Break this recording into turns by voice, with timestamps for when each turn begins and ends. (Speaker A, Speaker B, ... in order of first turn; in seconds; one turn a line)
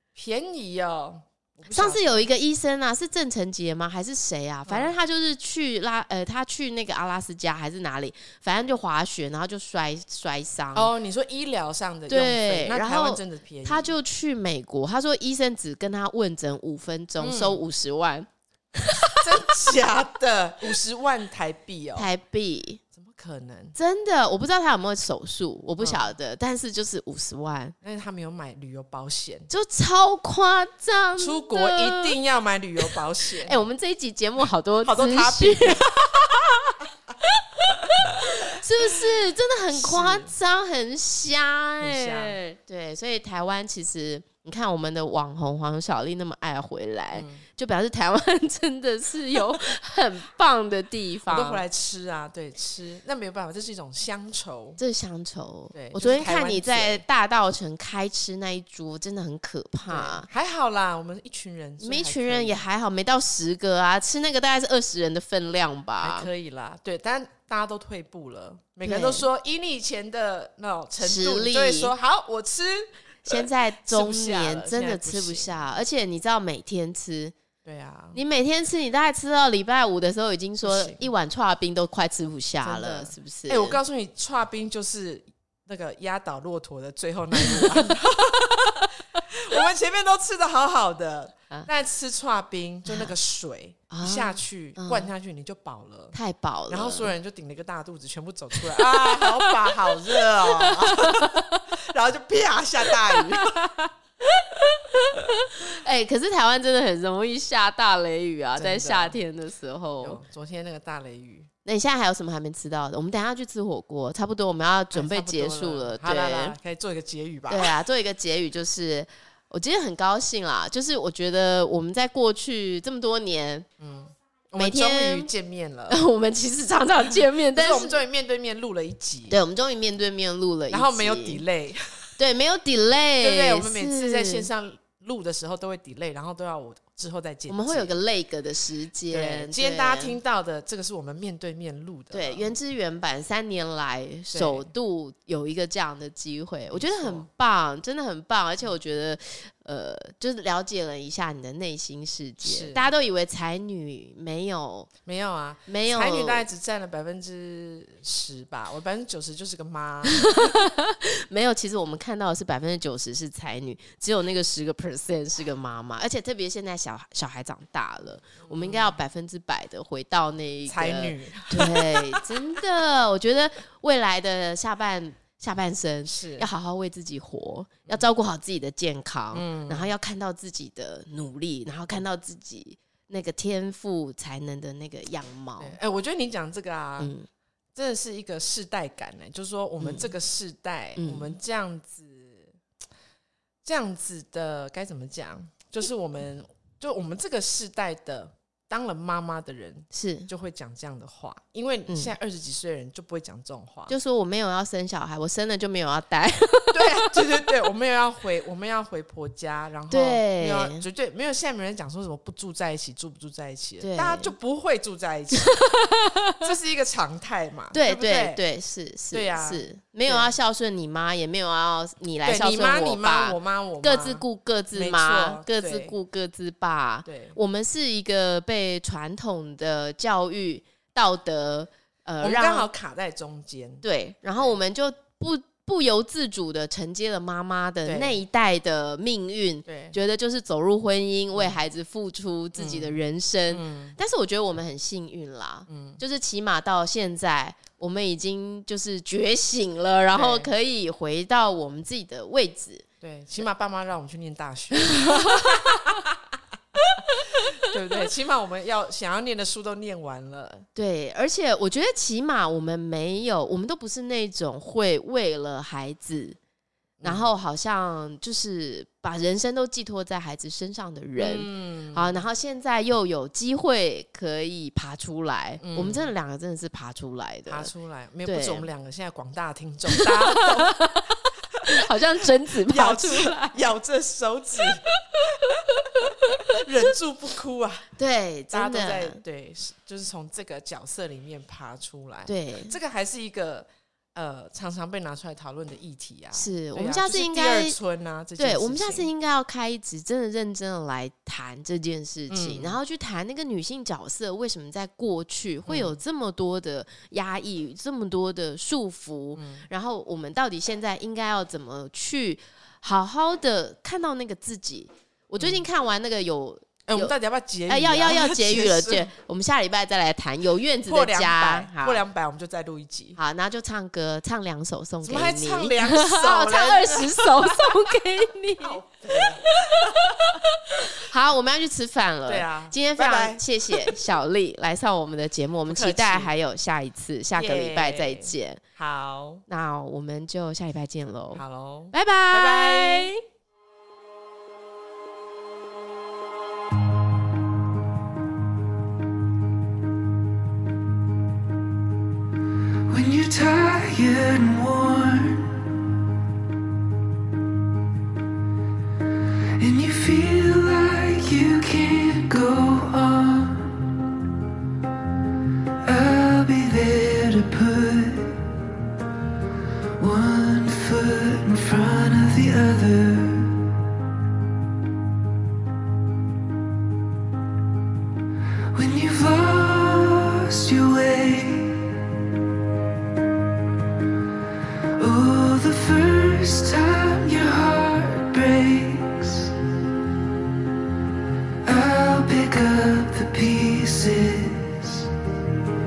Speaker A: 0.1-2.3
Speaker B: 1.7-10.9
Speaker A: 4.7-4.9
Speaker A: 10.8-13.9
Speaker B: 12.1-19.3
Speaker A: 17.2-17.6
Speaker A: 19.2-22.1
Speaker B: 21.9-22.8
Speaker A: 22.9-23.8
Speaker B: 23.8-27.8
Speaker A: 25.8-26.1
Speaker A: 27.8-29.5
Speaker B: 29.5-32.2
Speaker A: 31.2-33.6
Speaker B: 33.5-35.8
Speaker A: 34.8-37.2
Speaker A: 37.7-38.2
Speaker B: 38.0-51.6
Speaker A: 38.8-39.2
Speaker A: 39.7-40.3
Speaker A: 41.8-42.4
Speaker A: 47.1-47.4
Speaker A: 51.3-54.8
Speaker B: 54.8-60.3
Speaker A: 55.7-57.0
Speaker A: 59.9-62.6
Speaker B: 61.8-66.3
Speaker A: 66.0-75.6
Speaker B: 68.8-69.3
Speaker B: 71.0-71.9
Speaker B: 73.2-77.3
Speaker A: 77.7-78.2
Speaker B: 78.1-83.8
Speaker A: 80.6-81.0
Speaker A: 82.6-96.2
Speaker B: 87.4-87.7
Speaker B: 93.9-95.1
Speaker B: 96.1-97.1
Speaker A: 96.7-103.7
Speaker B: 98.8-101.6
Speaker B: 103.1-103.9
Speaker B: 104.4-110.2
Speaker A: 108.6-109.2
Speaker A: 110.0-111.5
Speaker B: 111.7-116.6
Speaker A: 114.9-117.8
Speaker B: 117.5-123.7
Speaker A: 123.8-126.0
Speaker B: 124.6-125.3
Speaker B: 125.9-128.0
Speaker A: 127.5-129.4
Speaker B: 129.3-131.4
Speaker A: 130.7-132.2
Speaker B: 132.2-134.5
Speaker A: 133.2-138.0
Speaker B: 137.5-140.2
Speaker A: 139.1-142.5
Speaker B: 142.1-154.9
Speaker A: 144.3-144.7
Speaker A: 146.7-147.3
Speaker A: 152.4-152.9
Speaker A: 155.1-160.6
Speaker B: 155.7-156.5
Speaker B: 160.1-185.8
Speaker A: 168.4-169.0
Speaker A: 170.7-172.3
Speaker A: 176.1-176.5
Speaker A: 179.3-179.9
Speaker A: 185.6-187.1
Speaker B: 187.0-187.3
Speaker A: 187.8-192.6
Speaker B: 189.8-190.1
Speaker B: 191.0-191.3
Speaker A: 193.6-203.9
Speaker B: 199.9-200.3
Speaker B: 203.9-207.4
Speaker A: 206.7-215.6
Speaker B: 209.9-210.8
Speaker B: 213.8-214.3
Speaker B: 215.3-216.4
Speaker A: 216.4-218.4
Speaker B: 217.7-232.7
Speaker A: 219.1-220.3
Speaker A: 222.2-226.0
Speaker A: 227.1-227.4
Speaker A: 232.2-233.8
Speaker B: 233.8-252.8
Speaker A: 237.9-238.2
Speaker A: 239.7-239.9
Speaker A: 242.6-243.0
Speaker A: 243.5-244.0
Speaker A: 245.7-246.0
Speaker A: 250.1-250.5
Speaker A: 253.0-260.7
Speaker B: 254.9-255.8
Speaker B: 260.8-266.4
Speaker A: 267.0-267.3
Speaker B: 267.0-277.7
Speaker A: 271.2-272.2
Speaker A: 275.6-276.1
Speaker A: 277.5-280.9
Speaker B: 278.2-278.7
Speaker B: 280.0-281.1
Speaker B: 281.6-283.6
Speaker A: 282.5-287.9
Speaker B: 288.0-289.2
Speaker A: 288.5-299.1
Speaker B: 292.3-292.7
Speaker B: 296.3-297.8
Speaker B: 298.4-317.1
Speaker A: 302.3-302.8
Speaker A: 305.7-306.0
Speaker A: 309.4-309.7
Speaker A: 315.4-315.6
Speaker A: 316.9-319.1
Speaker B: 317.7-322.0
Speaker A: 320.9-323.2
Speaker B: 323.2-329.5
Speaker A: 325.0-327.9
Speaker A: 328.6-330.5
Speaker B: 330.9-338.6
Speaker A: 332.3-334.0
Speaker A: 335.7-336.3
Speaker A: 337.4-339.4
Speaker B: 339.5-343.2
Speaker A: 341.4-343.1
Speaker C: 352.9-355.8
Speaker C: 359.6-364.0
Speaker C: 365.8-368.7
Speaker C: 370.0-373.7
Speaker C: 378.7-382.1
Speaker C: 385.0-389.6
Speaker C: 391.6-395.1